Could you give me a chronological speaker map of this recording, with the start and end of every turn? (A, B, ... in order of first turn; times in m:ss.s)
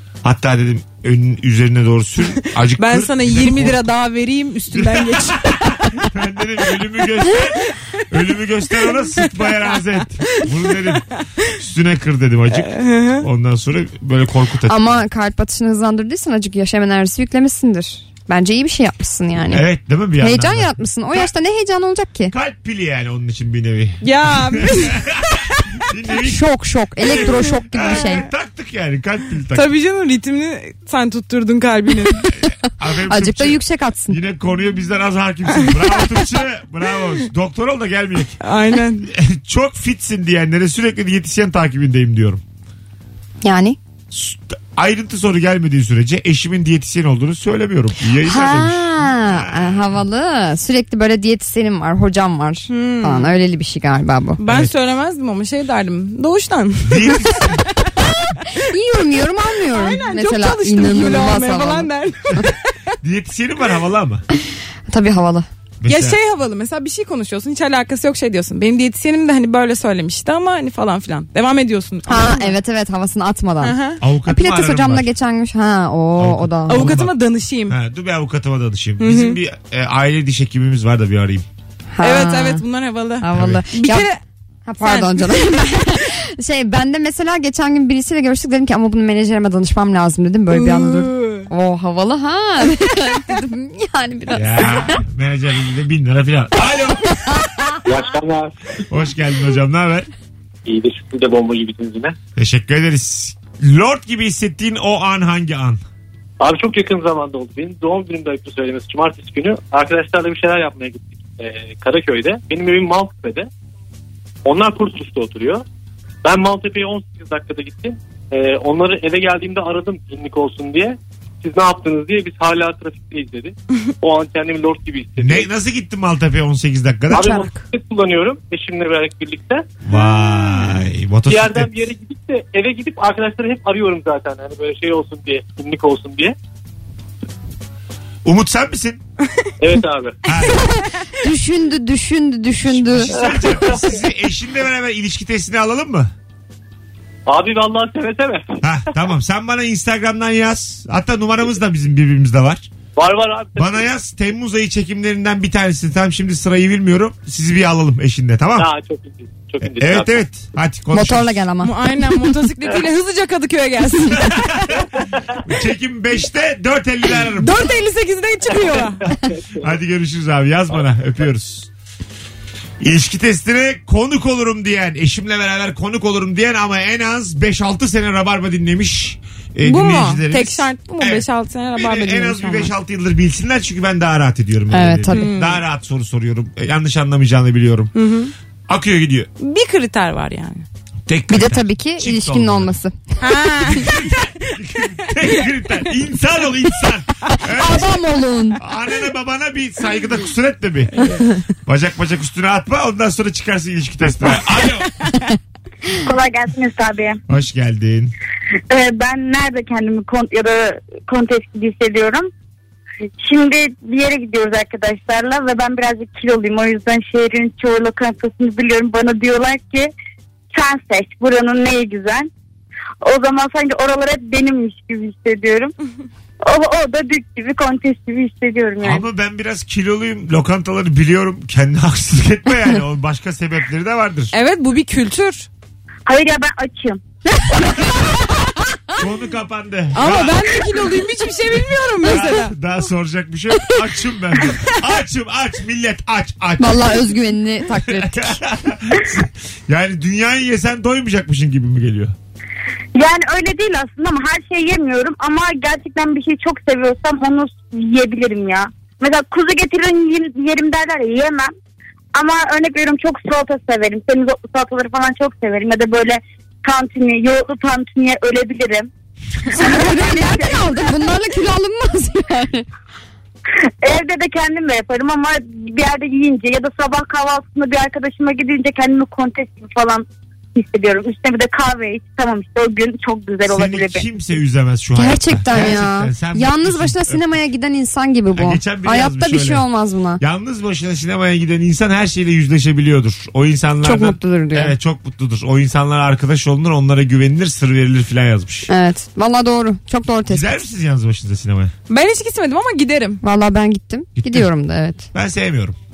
0:00.2-0:03.8 A
0:02.8-0:05.9 B
0:04.7-0:15.0 A
0:12.5-0:13.3 B
0:14.7-0:22.3 C
0:19.5-0:21.3 A
0:22.3-0:26.4 A
0:24.0-0:25.0 B
0:26.1-0:28.3 C
0:27.0-0:29.7 A
0:29.5-0:32.3 B
0:32.3-0:38.4 A
0:32.8-0:34.2 C
0:38.4-0:39.1 B
0:39.1-0:42.4 A
0:43.4-0:43.8 C
0:44.1-0:49.8 A
0:48.2-0:54.4 C
0:52.7-0:53.4 B
0:54.4-0:57.3 B
0:54.5-0:54.7 A
0:56.9-0:57.6 A
0:58.6-1:02.5 C
0:59.7-1:02.7 B
1:03.0-1:04.2 A
1:04.4-1:05.5 C
1:05.8-1:06.2 A
1:05.9-1:12.6 B
1:12.1-1:17.0 C
1:13.6-1:14.0 B
1:14.0-1:15.1 A
1:16.2-1:17.2 A
1:16.7-1:17.8 B
1:17.7-1:21.5 A
1:19.0-1:19.4 B
1:21.9-1:22.6 C
1:22.0-1:24.2 B
1:23.2-1:24.1 C
1:23.3-1:23.6 A
1:24.7-1:35.0 C
1:24.8-1:25.8 B
1:30.5-1:31.5 B
1:34.3-1:37.8 A
1:37.8-1:38.8 D
1:38.9-1:40.1 A
1:40.7-1:42.2 D
1:42.4-1:45.8 A
1:46.4-1:53.5 D
1:54.4-1:55.6 D
1:56.2-2:05.5 D
2:05.2-2:07.4 A
2:07.1-2:09.6 D
2:07.1-2:07.5 C
2:09.8-2:11.7 A
2:11.3-2:16.4 D
2:18.2-2:19.0 A
2:19.6-2:20.2 D
2:20.3-2:20.7 A
2:21.2-2:23.2 C
2:22.7-2:26.1 A
2:23.1-2:24.0 D
2:27.3-2:28.6 D
2:28.6-2:32.7 A
2:33.0-2:33.9 D
2:33.6-2:38.7 A
2:38.6-2:40.2 D
2:39.6-2:41.4 A
2:40.9-2:41.8 C
2:41.6-2:44.7 B
2:44.1-2:44.8 A
2:45.4-2:47.7 A
2:47.4-2:49.0 B
2:49.1-2:49.7 D
2:49.6-2:51.7 A
2:52.8-3:07.9 A
2:59.6-3:02.7 B
3:04.7-3:05.4 C
3:05.1-3:05.6 B
3:08.0-3:08.3 B
3:08.7-3:09.3 A
3:09.4-3:10.6 B
3:11.1-3:12.8 A
3:11.3-3:13.0 C
3:13.2-3:13.9 B
3:13.6-3:18.0 A
3:17.4-3:18.6 C
3:18.6-3:25.3 A
3:25.9-3:27.2 E
3:27.3-3:28.1 A
3:28.7-3:32.3 E
3:33.2-3:39.9 E
3:40.5-3:42.3 E
3:43.0-3:45.7 E
3:46.4-3:49.0 E
3:48.8-3:54.3 A
3:54.3-3:55.5 B
3:56.1-3:57.0 E
3:57.5-3:58.1 C
3:59.0-4:00.6 A
3:59.9-4:02.6 B
4:02.0-4:07.1 A
4:06.6-4:08.4 C
4:07.8-4:12.2 A
4:13.0-4:21.5 E
4:22.2-4:28.9 E
4:29.5-4:30.6 E
4:29.5-4:32.7 C
4:33.8-4:44.0 E
4:43.5-4:47.2 A
4:45.0-4:50.2 C
4:48.4-4:49.6 A
4:50.2-4:58.7 A
4:53.8-4:54.8 C
4:58.7-5:00.6 C
5:00.3-5:01.7 A
5:01.9-5:03.2 B
5:03.2-5:05.1 C
5:04.2-5:04.5 A
5:05.1-5:05.8 A